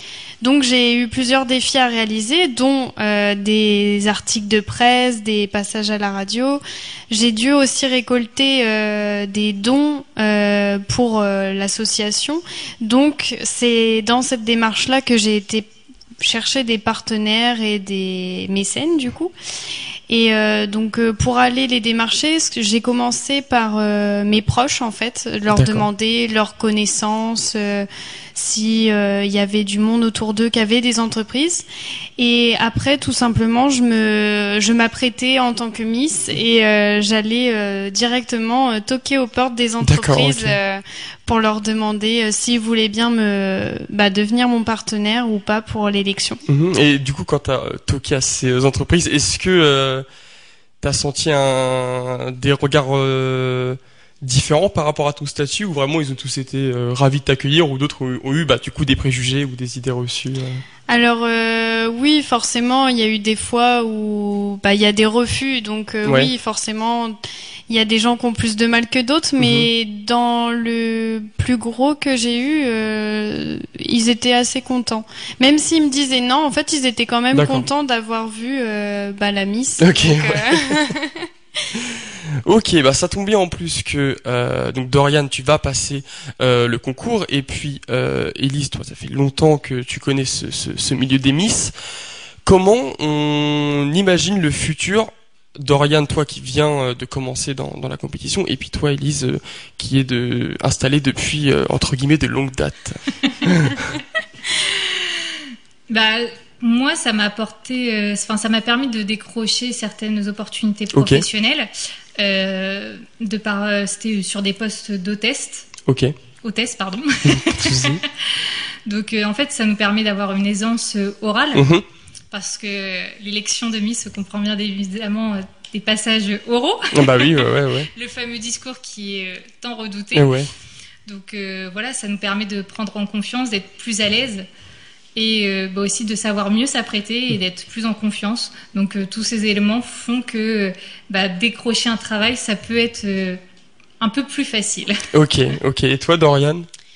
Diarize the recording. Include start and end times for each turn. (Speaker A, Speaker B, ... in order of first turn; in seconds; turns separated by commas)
Speaker A: 0.4-19.3, Speaker A: 20.1-31.6, Speaker B: 25.5-25.9, Speaker A: 32.2-46.4, Speaker B: 39.8-40.6, Speaker B: 46.5-50.1, Speaker B: 50.8-60.6, Speaker A: 60.9-81.3, Speaker B: 66.0-66.3, Speaker B: 69.4-69.7, Speaker B: 77.3-77.7, Speaker B: 79.8-80.7, Speaker B: 82.5-91.7, Speaker B: 92.5-103.9, Speaker C: 105.9-115.7, Speaker B: 111.0-111.2, Speaker B: 115.9-116.2, Speaker C: 116.4-121.7, Speaker B: 117.3-118.0, Speaker B: 121.5-121.8, Speaker C: 122.3-130.3, Speaker B: 126.9-127.9, Speaker B: 130.1-130.5, Speaker C: 131.1-134.5, Speaker C: 135.2-143.4, Speaker C: 144.0-145.0, Speaker B: 145.1-146.7